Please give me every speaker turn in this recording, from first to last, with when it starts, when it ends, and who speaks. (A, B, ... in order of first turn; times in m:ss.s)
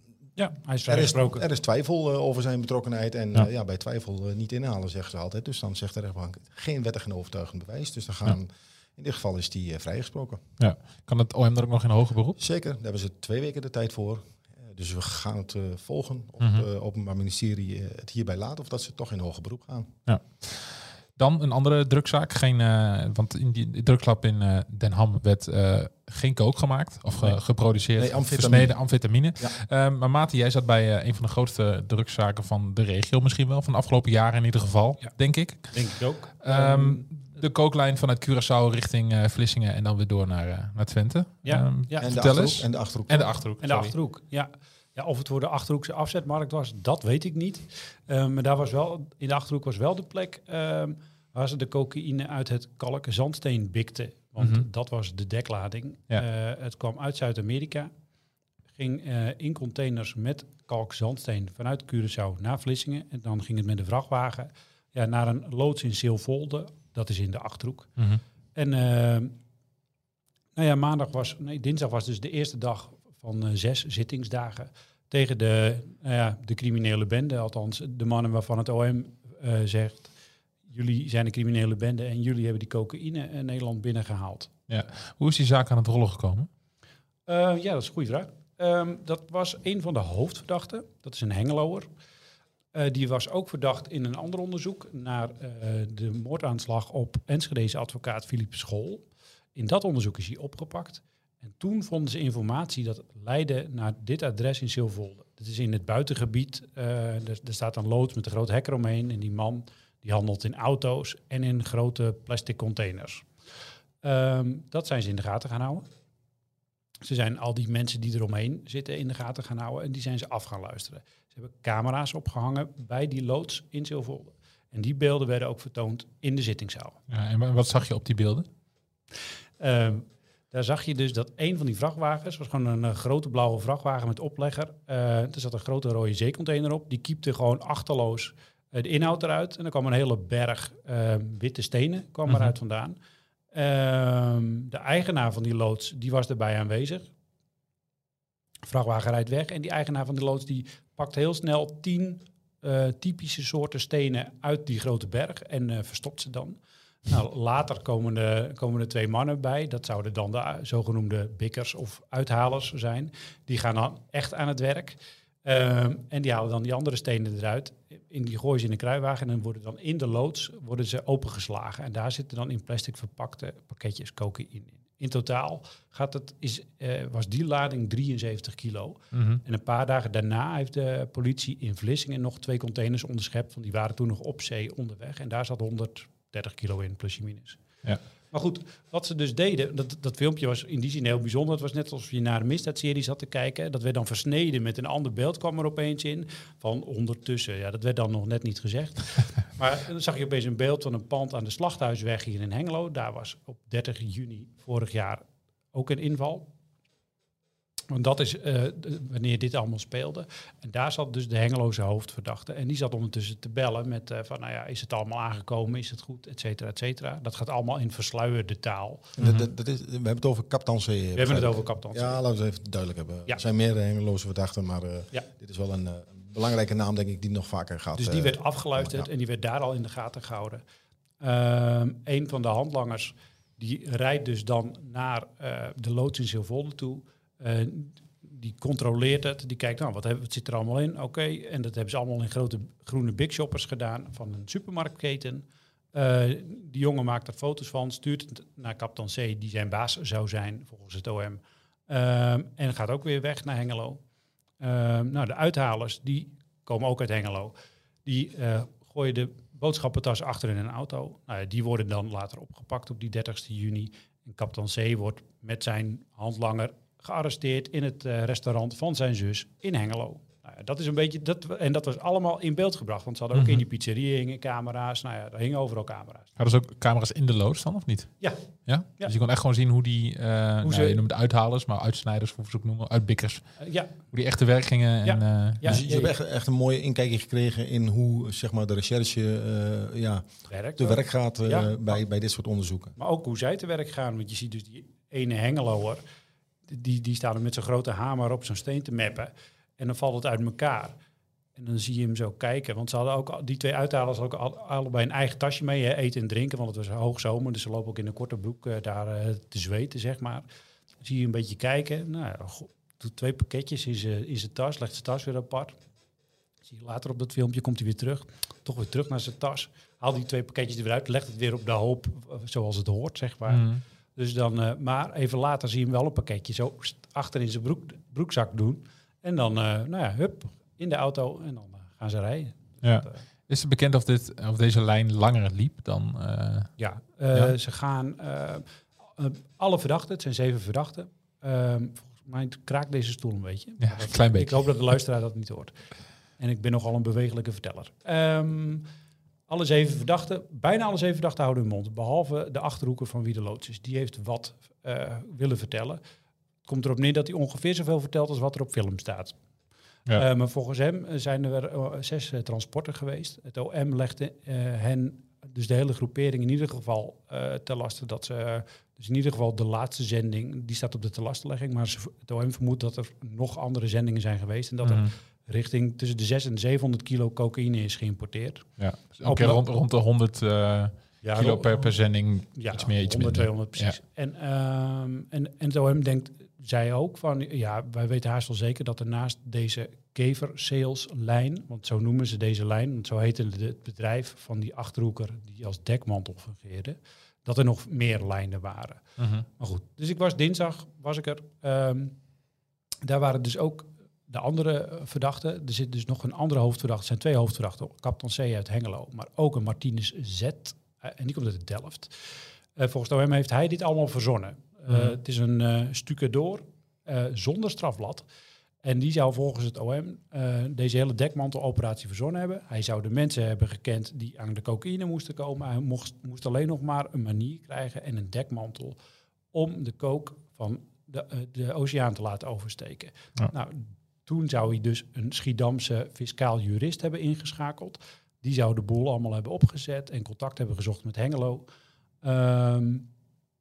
0:00.4-0:01.4 A
0:00.8-0:10.4 B
0:10.6-0:12.4 C
0:12.4-0:19.9 B
0:16.4-0:16.6 C
0:20.1-0:35.8 C
0:28.0-0:28.8 B
0:35.7-0:37.0 A
0:36.4-0:43.9 C
0:41.4-0:42.1 A
0:42.0-0:43.3 B
0:43.6-0:57.9 A
0:54.4-0:54.6 C
0:58.7-1:07.9 A
1:08.5-1:09.3 A
1:10.6-1:20.1 A
1:20.7-1:24.5 A
1:24.7-1:26.5 C
1:27.3-1:31.9 A
1:32.7-1:53.3 A
1:54.0-1:55.9 A
1:57.0-2:07.0 A
2:07.1-2:08.5 C
2:09.6-2:23.0 A
2:23.5-2:27.1 A
2:28.6-3:07.6 A
2:59.1-2:59.4 C
3:08.3-3:26.5 A
3:27.9-3:39.1 A
3:39.2-3:49.1 B
3:39.2-3:39.5 C
3:41.1-3:42.2 A
3:48.0-3:50.6 A
3:51.2-4:14.0 A
4:14.6-4:17.5 A
4:18.0-4:36.4 A
4:33.3-4:33.6 C
4:36.4-4:45.8 C
4:40.6-4:41.0 A
4:43.6-4:44.0 A
4:45.0-4:46.1 A
4:45.6-4:53.0 B
4:50.5-4:51.8 A
4:53.0-4:56.0 A
4:56.7-5:01.0 A
5:01.5-5:10.4 A
5:11.0-5:15.8 A
5:16.7-5:33.2 A
5:23.5-5:23.8 C
5:32.8-5:36.7 C
5:36.8-5:45.8 A
5:43.8-5:44.6 C
5:46.4-5:48.8 A
5:49.5-5:56.0 A
5:56.6-5:59.4 A
6:00.1-6:18.7 A
6:14.8-6:15.1 C
6:18.8-6:24.0 C
6:19.2-6:19.6 A
6:21.2-6:22.0 A
6:22.5-6:39.1 A
6:39.2-6:39.4 C
6:39.6-6:42.1 A
6:43.0-6:58.2 A
6:58.8-7:09.0 A
7:09.5-7:21.6 A
7:22.2-7:23.1 A